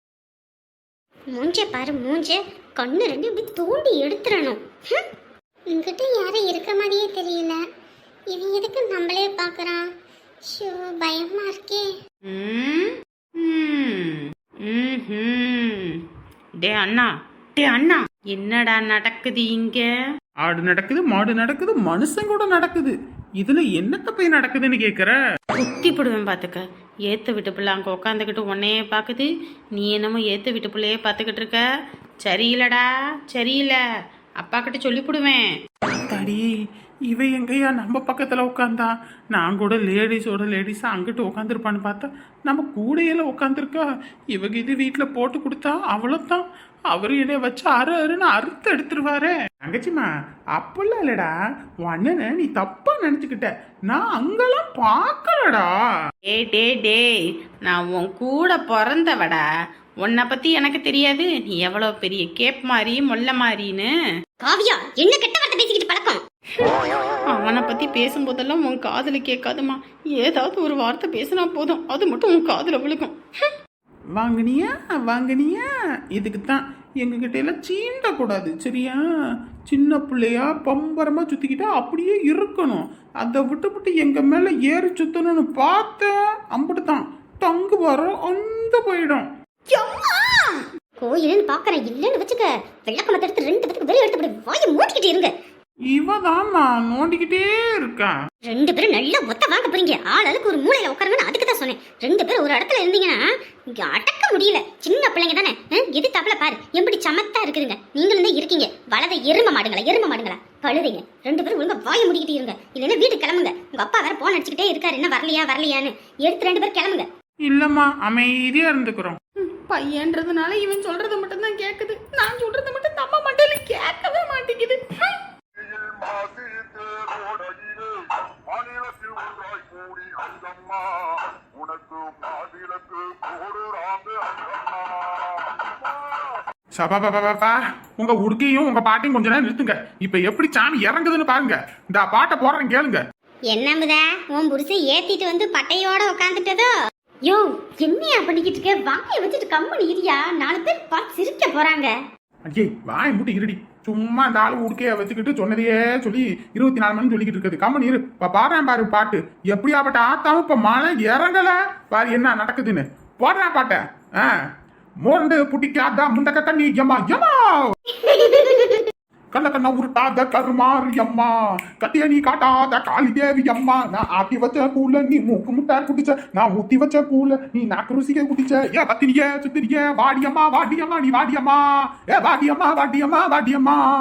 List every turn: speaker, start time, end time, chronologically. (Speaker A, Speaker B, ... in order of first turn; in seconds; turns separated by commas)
Speaker A: 1.3-4.6, Speaker B: 5.7-7.6, Speaker B: 8.3-9.9, Speaker B: 10.5-11.9, Speaker C: 12.2-16.0, Speaker C: 16.6-19.9, Speaker D: 20.4-25.2, Speaker C: 25.6-31.6, Speaker C: 32.2-33.8, Speaker C: 34.4-35.5, Speaker D: 35.9-36.5, Speaker D: 37.1-51.3, Speaker D: 51.8-55.7, Speaker C: 56.2-59.4, Speaker C: 60.0-63.9, Speaker A: 64.4-66.2, Speaker C: 67.3-73.2, Speaker D: 74.2-79.0, Speaker D: 79.7-89.3, Speaker A: 89.8-90.4, Speaker A: 91.0-95.3, Speaker D: 95.9-98.2, Speaker A: 98.5-117.1, Speaker D: 117.5-119.2, Speaker C: 119.4-125.3, Speaker E: 125.6-135.4, Speaker D: 136.8-143.0, Speaker A: 143.5-146.7, Speaker A: 147.2-151.9, Speaker D: 152.5-164.3, Speaker D: 165.0-167.8, Speaker A: 168.1-168.8, Speaker D: 169.3-183.8